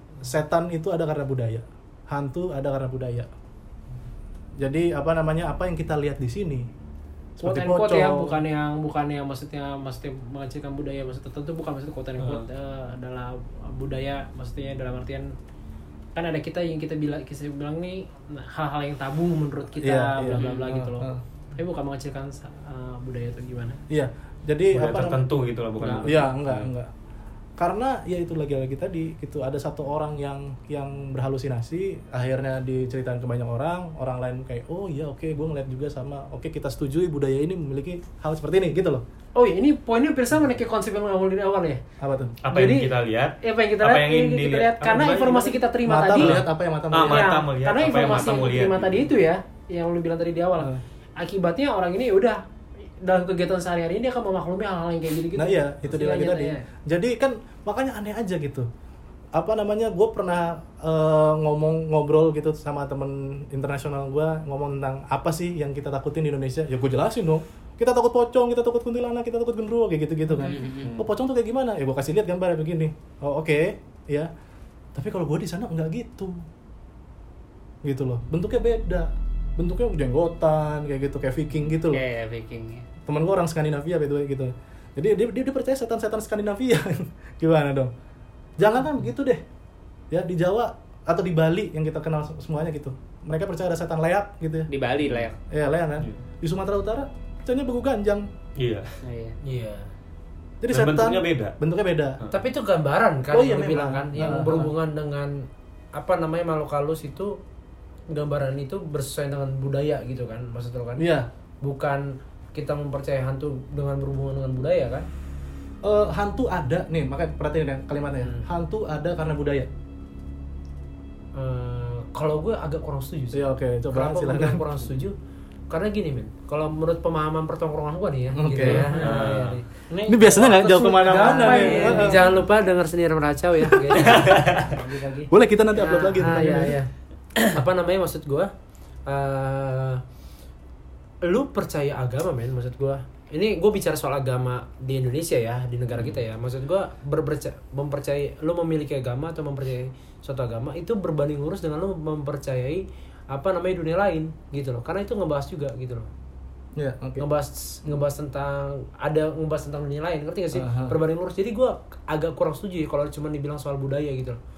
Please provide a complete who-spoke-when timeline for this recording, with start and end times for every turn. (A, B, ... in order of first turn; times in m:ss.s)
0:00.2-0:03.3 A
0:04.6-0:06.7 A
0:07.4-0:08.4 A
0:07.4-0:15.4 B
0:12.2-0:12.4 C
0:16.1-0:23.8 B
0:19.8-0:21.2 A
0:23.9-0:25.3 A
0:24.7-0:26.7 C
0:25.8-0:26.2 B
0:26.0-0:26.9 A
0:27.6-0:39.0 A
0:39.4-0:41.8 B
0:42.0-0:42.4 A
0:42.4-0:49.1 C
0:42.5-0:52.4 B
0:45.8-0:47.4 A
0:53.0-0:56.6 B
0:55.4-0:58.7 A
0:59.4-1:14.3 A
1:10.4-1:10.9 D
1:15.0-1:16.4 A
1:17.8-1:22.0 A
1:21.8-1:22.9 D
1:23.1-1:27.9 A
1:28.6-1:29.4 A
1:30.1-1:34.7 A
1:34.7-1:35.4 D
1:35.5-1:38.3 A
1:38.6-1:39.0 C
1:39.0-1:39.4 D
1:39.4-1:39.9 E
1:40.6-1:42.2 A
1:40.7-1:41.6 C
1:42.2-1:42.5 C
1:42.3-1:47.4 E
1:43.3-1:44.7 A
1:48.1-1:51.1 E
1:51.0-1:51.3 A
1:51.6-1:55.1 E
1:55.8-1:59.7 A
1:58.2-1:58.5 E
2:01.3-2:05.2 E
2:03.3-2:04.8 A
2:05.7-2:09.6 E
2:08.3-2:09.0 A
2:08.6-2:09.6 C
2:09.9-2:12.4 B
2:10.1-2:12.3 A
2:11.0-2:18.5 E
2:14.0-2:14.7 C
2:15.3-2:16.8 A
2:16.3-2:16.7 B
2:19.1-2:20.0 E
2:21.2-2:36.1 E
2:36.8-2:37.2 A
2:37.2-2:44.4 E
2:40.5-2:41.0 A